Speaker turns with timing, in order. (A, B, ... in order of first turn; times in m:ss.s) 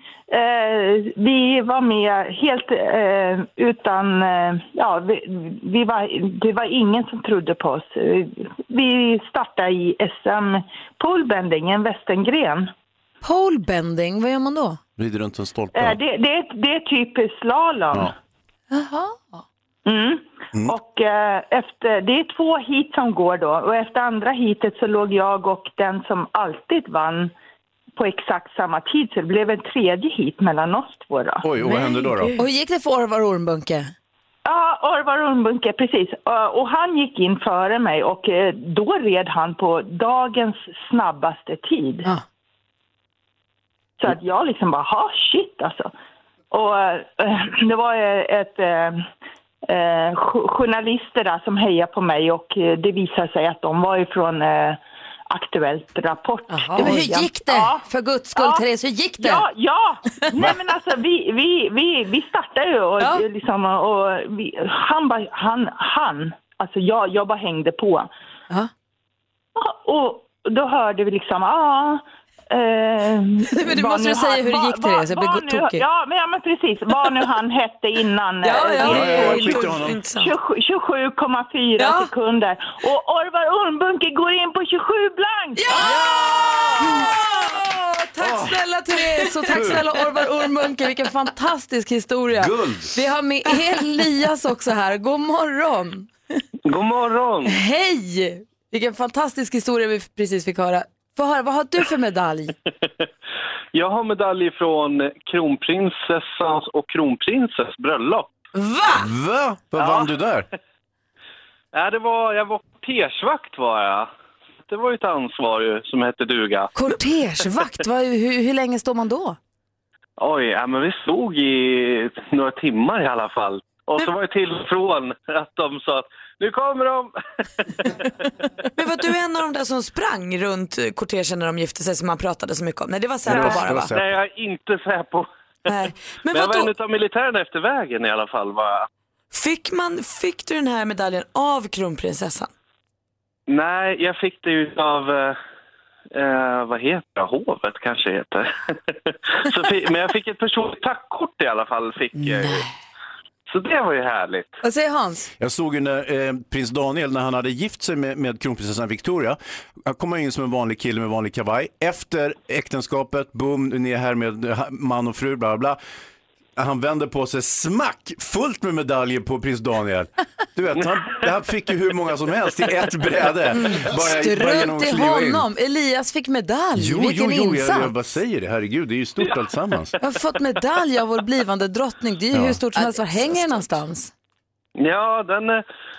0:00.3-0:12.7 A
0:13.2-0:14.8 B
0:15.0-0:16.0 C
0:15.7-0:18.2 A
0:18.7-0:19.4 B
0:19.9-0:27.3 A
0:28.0-0:31.4 A
0:31.4-0:32.4 C
0:31.6-0:32.4 D
0:32.4-0:33.9 B
0:34.5-0:42.1 A
0:44.0-0:45.9 A
0:46.5-0:49.1 A
0:49.7-0:58.6 A
0:56.5-0:59.5 B
0:59.2-1:08.1 A
1:09.6-1:25.7 A
1:13.5-1:15.8 B
1:18.4-1:19.4 B
1:18.8-1:20.3 D
1:18.8-1:20.0 C
1:21.8-1:22.1 B
1:25.6-1:36.1 B
1:25.7-1:27.2 D
1:28.2-1:28.6 C
1:29.5-1:29.9 C
1:32.4-1:32.9 C
1:36.7-1:37.6 E
1:37.4-1:42.6 B
1:43.7-1:48.3 E
1:48.6-1:48.9 D
1:49.0-1:50.5 C
1:49.8-1:50.1 E
1:51.7-1:54.1 E
1:54.7-1:56.7 E
1:56.8-1:59.4 B
2:00.2-2:07.2 E
2:08.8-2:13.9 D
2:13.2-2:14.2 C
2:13.4-2:15.3 E
2:15.7-2:16.7 D
2:16.3-2:18.9 E
2:19.3-2:22.5 D
2:23.5-2:25.4 E
2:26.2-2:32.7 E
2:32.2-2:32.6 D
2:33.5-2:34.5 E
2:34.6-2:35.3 B
2:35.4-2:45.8 C
2:46.6-2:55.5 C
2:53.9-2:57.9 B
2:56.8-3:00.0 C
3:00.0-3:04.1 B
3:02.3-3:02.6 C
3:02.8-3:03.0 D
3:04.8-3:05.6 E